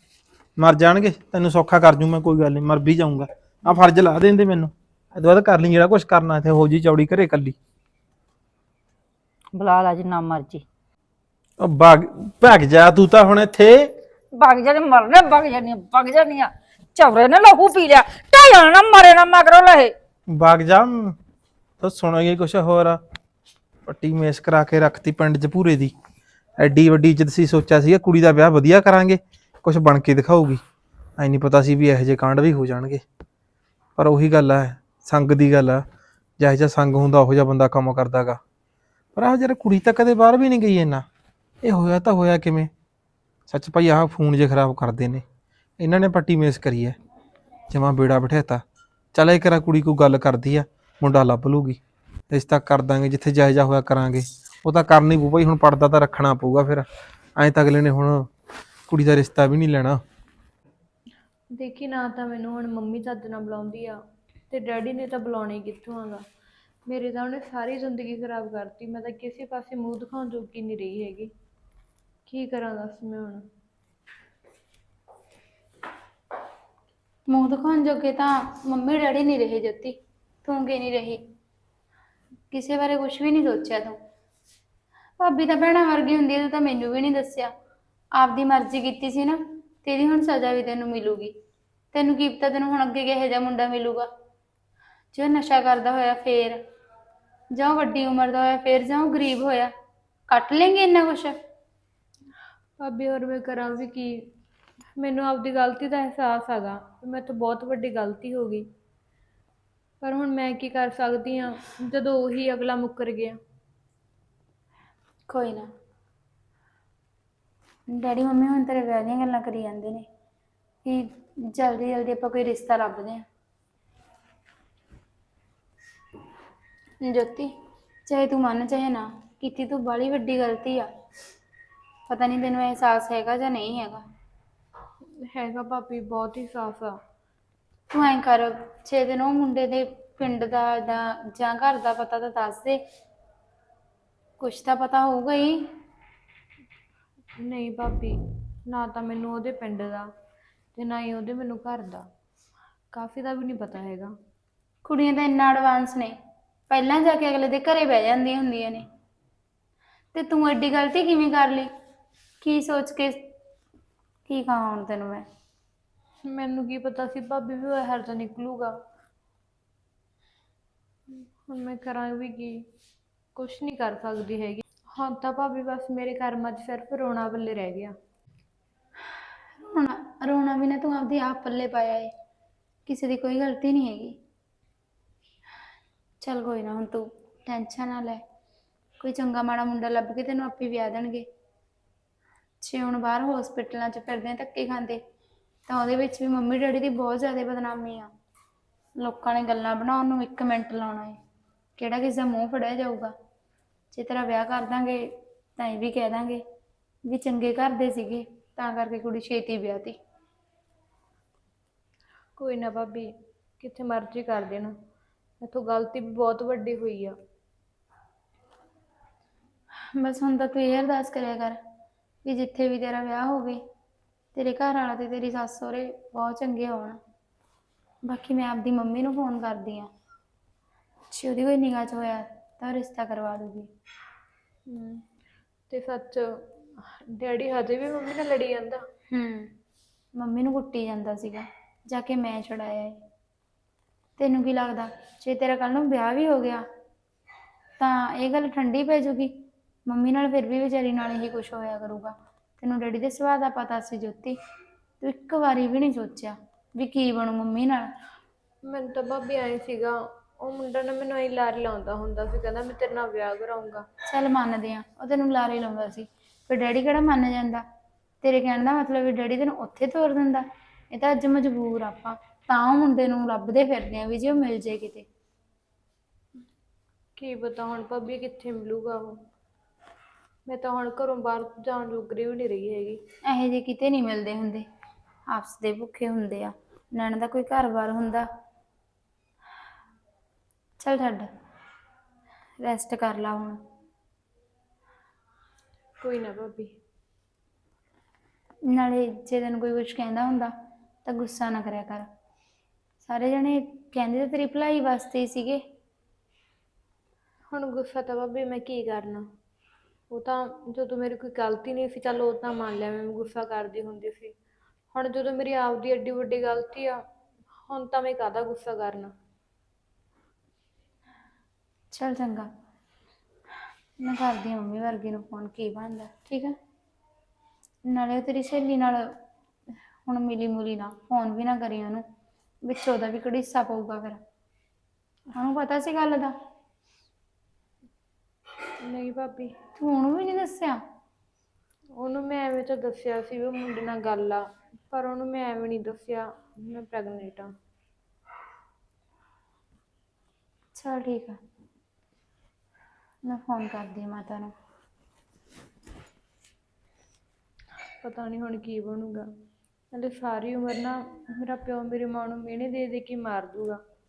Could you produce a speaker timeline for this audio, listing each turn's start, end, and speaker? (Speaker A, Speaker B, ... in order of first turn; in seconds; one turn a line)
Speaker A: 0.6-7.6
Speaker B: 9.6-10.6
Speaker A: 11.6-13.9
Speaker B: 14.3-19.9
Speaker A: 20.3-21.2
Speaker A: 21.8-23.0
Speaker A: 23.9-25.9
Speaker A: 26.6-30.6
Speaker A: 31.2-33.0
Speaker A: 34.0-35.9
Speaker A: 36.4-38.4
Speaker A: 39.1-41.1
Speaker A: 41.6-42.7
Speaker A: 43.5-45.2
Speaker A: 45.8-47.0
Speaker A: 47.7-48.6
Speaker A: 49.1-51.8
Speaker A: 52.3-56.9
Speaker A: 57.4-58.3
Speaker A: 58.9-60.0
Speaker C: 61.5-66.2
Speaker C: 66.9-71.3
Speaker C: 72.3-73.5
Speaker D: 77.3-81.2
Speaker D: 82.5-84.0
Speaker D: 85.2-87.5
Speaker D: 88.2-91.4
Speaker D: 91.9-94.1
Speaker D: 95.1-96.6
Speaker D: 97.5-99.7
Speaker D: 100.3-101.4
Speaker C: 102.8-104.3
Speaker C: 105.0-108.7
Speaker C: 110.0-113.4
Speaker D: 115.3-115.7
Speaker D: 117.9-120.1
Speaker D: 120.8-123.2
Speaker D: 127.0-127.5
Speaker D: 128.1-130.9
Speaker D: 132.1-134.1
Speaker C: 135.2-137.0
Speaker D: 137.9-142.8
Speaker D: 144.4-145.7
Speaker C: 147.4-150.1
Speaker C: 150.8-152.1
Speaker C: 152.9-154.1
Speaker D: 154.8-156.2
Speaker D: 156.7-158.9
Speaker D: 160.1-161.7
Speaker D: 162.4-163.2
Speaker D: 164.3-165.3
Speaker C: 166.2-168.8
Speaker C: 171.1-172.6
Speaker C: 173.4-178.0
Speaker D: 179.6-182.1
Speaker D: 182.9-184.2
Speaker D: 186.2-188.2
Speaker D: 189.0-191.3
Speaker D: 192.6-195.0
Speaker D: 195.7-198.1
Speaker D: 199.0-201.2
Speaker D: 201.8-203.1
Speaker D: 203.9-206.4
Speaker D: 207.1-210.0
Speaker C: 212.4-214.8
Speaker C: 215.4-217.2
Speaker D: 219.9-221.6
Speaker D: 222.2-223.6
Speaker D: 224.3-227.0
Speaker D: 228.1-229.9
Speaker D: 231.1-233.7
Speaker C: 234.7-235.0
Speaker C: 235.7-238.8
Speaker D: 239.1-239.5
Speaker D: 240.2-243.0
Speaker D: 244.2-246.7
Speaker D: 247.8-249.3
Speaker D: 249.9-254.4
Speaker D: 255.0-257.9
Speaker C: 258.7-263.9
Speaker D: 264.1-267.6
Speaker D: 268.2-275.1
Speaker C: 277.2-279.2
Speaker C: 280.5-283.0
Speaker D: 283.2-284.7
Speaker D: 285.3-288.3
Speaker D: 290.8-291.3
Speaker D: 292.6-293.6
Speaker C: 296.0-296.7
Speaker D: 298.7-300.5
Speaker D: 301.1-302.1
Speaker D: 303.1-305.6
Speaker C: 307.5-309.3
Speaker C: 310.1-314.4
Speaker C: 314.9-317.0
Speaker C: 317.7-319.1
Speaker D: 321.9-322.5
Speaker D: 324.0-326.6
Speaker D: 327.9-329.1
Speaker D: 330.1-332.1
Speaker D: 332.7-334.2
Speaker D: 335.3-336.4
Speaker C: 338.8-339.5
Speaker D: 339.8-340.8
Speaker C: 342.0-347.5
Speaker D: 350.8-351.4
Speaker D: 353.2-354.5
Speaker C: 358.0-359.3
Speaker C: 359.9-363.8